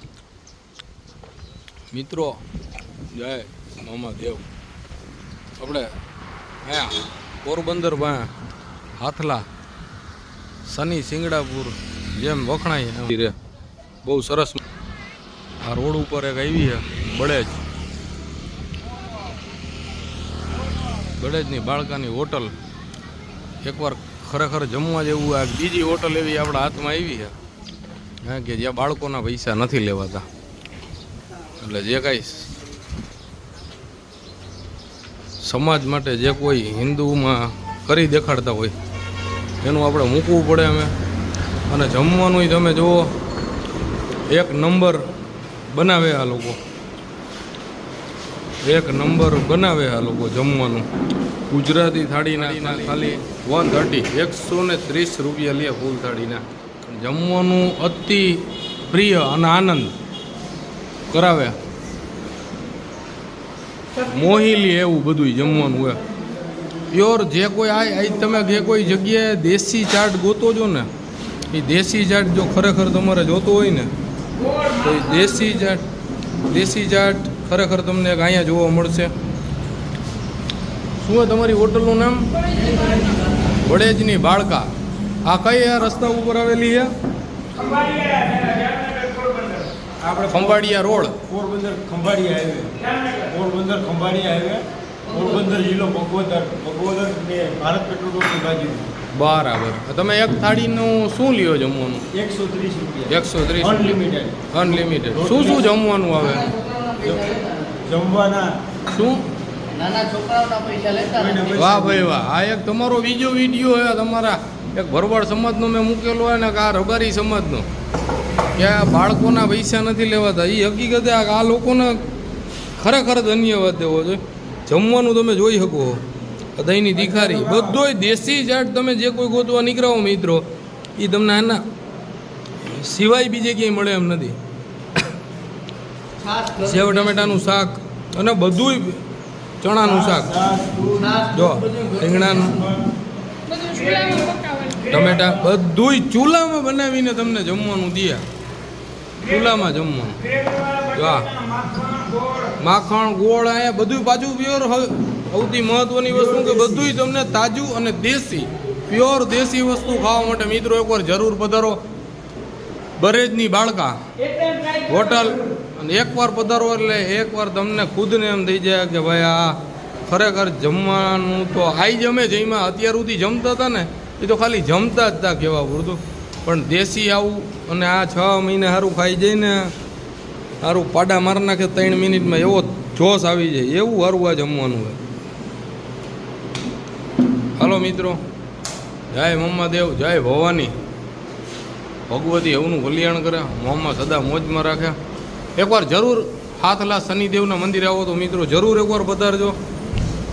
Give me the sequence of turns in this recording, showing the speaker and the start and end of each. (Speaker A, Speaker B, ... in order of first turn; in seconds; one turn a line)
Speaker A: 1.9-2.4
Speaker A: 3.1-4.4
Speaker A: 5.6-5.9
Speaker A: 6.6-8.3
Speaker A: 9.0-9.4
Speaker A: 10.7-13.3
Speaker A: 14.0-14.6
Speaker A: 15.6-17.6
Speaker A: 21.1-22.5
Speaker A: 23.6-27.3
Speaker A: 28.2-30.2
Speaker A: 31.6-32.5
Speaker A: 35.4-38.7
Speaker A: 39.6-40.9
Speaker A: 41.7-43.1
Speaker A: 44.3-45.0
Speaker A: 45.7-46.6
Speaker A: 48.6-50.9
Speaker A: 51.5-59.9
Speaker A: 61.1-61.5
Speaker A: 64.0-66.0
Speaker A: 66.9-70.9
Speaker A: 71.5-73.9
Speaker A: 74.7-75.8
Speaker A: 76.5-79.1
Speaker A: 81.0-82.3
Speaker A: 83.6-84.7
Speaker A: 85.2-86.9
Speaker B: 87.6-88.8
Speaker B: 90.0-90.6
Speaker A: 90.3-91.2
Speaker B: 91.3-98.9
Speaker A: 99.1-102.1
Speaker B: 102.1-105.5
Speaker A: 103.1-104.0
Speaker A: 104.5-106.5
Speaker C: 106.9-107.7
Speaker B: 107.0-108.6
Speaker A: 108.9-109.2
Speaker C: 109.7-111.5
Speaker B: 111.2-111.8
Speaker A: 111.5-117.7
Speaker A: 118.5-122.0
Speaker A: 122.8-126.0
Speaker A: 126.5-130.4
Speaker A: 131.0-131.6
Speaker A: 132.6-134.3
Speaker A: 136.5-139.0
Speaker A: 139.6-140.5
Speaker B: 140.1-141.2
Speaker A: 141.2-142.6
Speaker A: 144.7-148.2
Speaker A: 149.2-151.6
Speaker A: 152.6-161.8
Speaker A: 163.0-164.0
Speaker A: 164.7-179.7
Speaker A: 180.6-185.0
Speaker A: 187.6-188.2
Speaker A: 189.1-190.7
Speaker A: 192.1-195.0
Speaker A: 195.6-199.6